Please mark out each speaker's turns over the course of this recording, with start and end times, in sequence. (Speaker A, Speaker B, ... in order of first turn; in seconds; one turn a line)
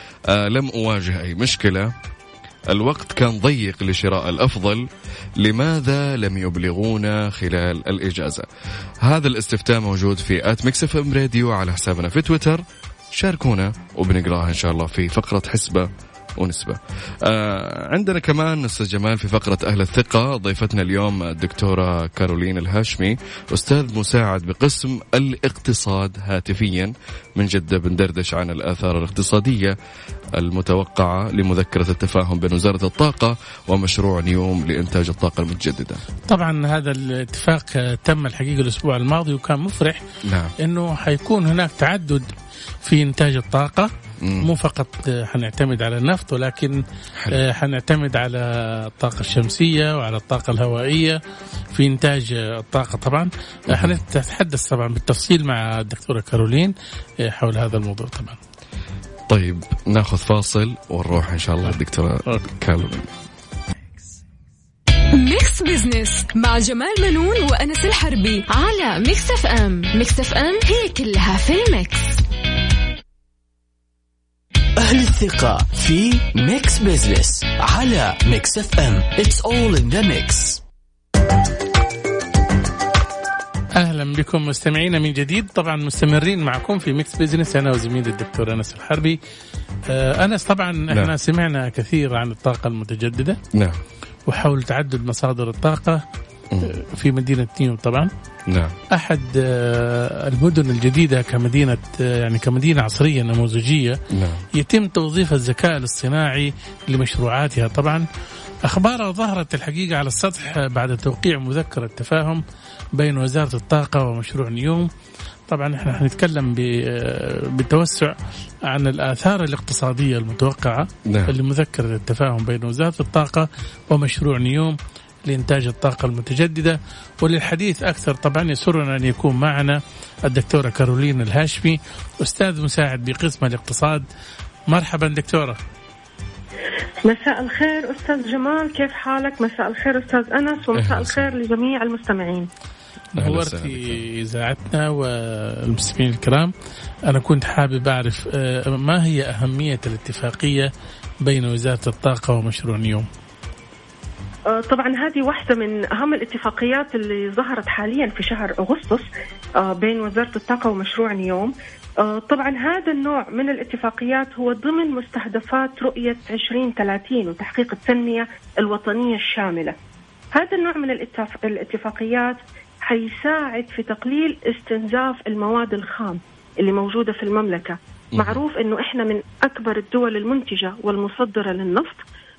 Speaker A: 0.3-1.9
Speaker A: 2.7-8.5
Speaker A: 9.0-29.8
Speaker A: 30.3-36.0
Speaker B: 36.3-40.0
Speaker A: 40.2-40.5
Speaker B: 40.6-42.3
Speaker B: 42.8-43.9
Speaker A: 44.2-44.5
Speaker B: 44.4-46.8
Speaker B: 47.3-51.2
Speaker B: 51.7-58.4
Speaker A: 53.7-54.0
Speaker A: 59.3-63.1
Speaker C: 65.1-72.2
Speaker D: 74.8-80.6
Speaker B: 83.8-89.2
Speaker B: 89.9-93.4
Speaker A: 93.5-93.8
Speaker B: 94.3-96.0
Speaker B: 96.6-98.1
Speaker A: 98.5-98.8
Speaker B: 98.9-104.0
Speaker A: 104.1-104.4
Speaker B: 104.5-108.0
Speaker B: 108.6-112.4
Speaker B: 113.0-114.9
Speaker B: 115.5-134.1
Speaker A: 121.0-121.3
Speaker B: 134.7-135.6
Speaker E: 137.0-142.5
Speaker A: 140.8-141.3
Speaker B: 143.2-146.5
Speaker A: 143.2-144.0
Speaker B: 147.1-150.7
Speaker B: 151.2-153.1
Speaker E: 154.5-169.8
Speaker E: 170.3-182.0
Speaker A: 178.1-178.4